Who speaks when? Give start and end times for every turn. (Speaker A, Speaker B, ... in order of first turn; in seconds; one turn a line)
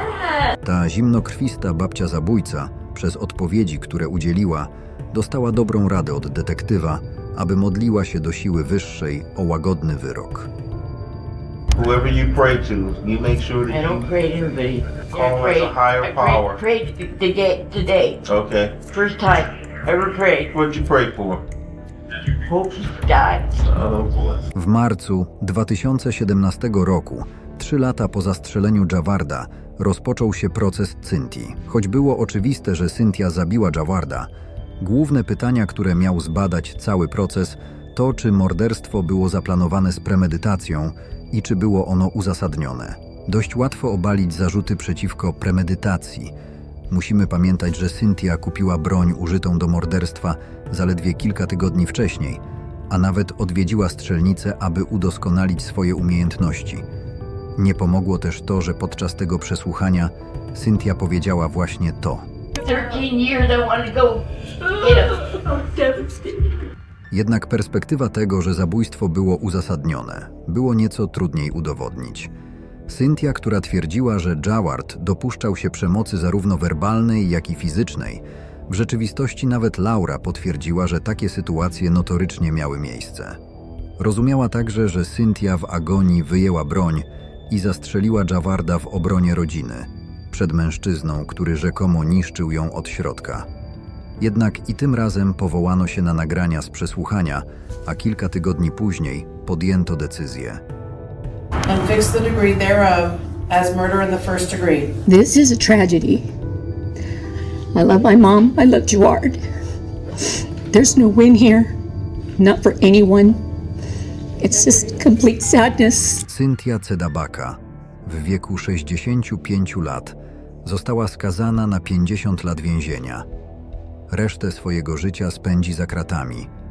Speaker A: 0.6-10.5
Speaker B: 11.7-14.1
Speaker C: 13.7-18.2
Speaker B: 15.1-16.6
Speaker B: 18.2-18.8
Speaker C: 18.9-20.5
Speaker B: 20.5-21.4
Speaker C: 22.4-23.6
Speaker B: 23.7-24.4
Speaker A: 24.5-34.3
Speaker A: 34.8-46.3
Speaker A: 46.9-56.8
Speaker A: 57.6-62.2
Speaker C: 62.6-66.5
Speaker A: 67.1-72.3
Speaker A: 72.9-83.4
Speaker A: 84.0-93.5
Speaker A: 94.2-100.6
Speaker D: 101.7-105.0
Speaker E: 105.0-106.3
Speaker E: 107.7-109.4
Speaker E: 110.7-111.7
Speaker E: 112.4-113.4
Speaker E: 114.4-116.2
Speaker A: 116.2-123.2
Speaker A: 124.1-126.5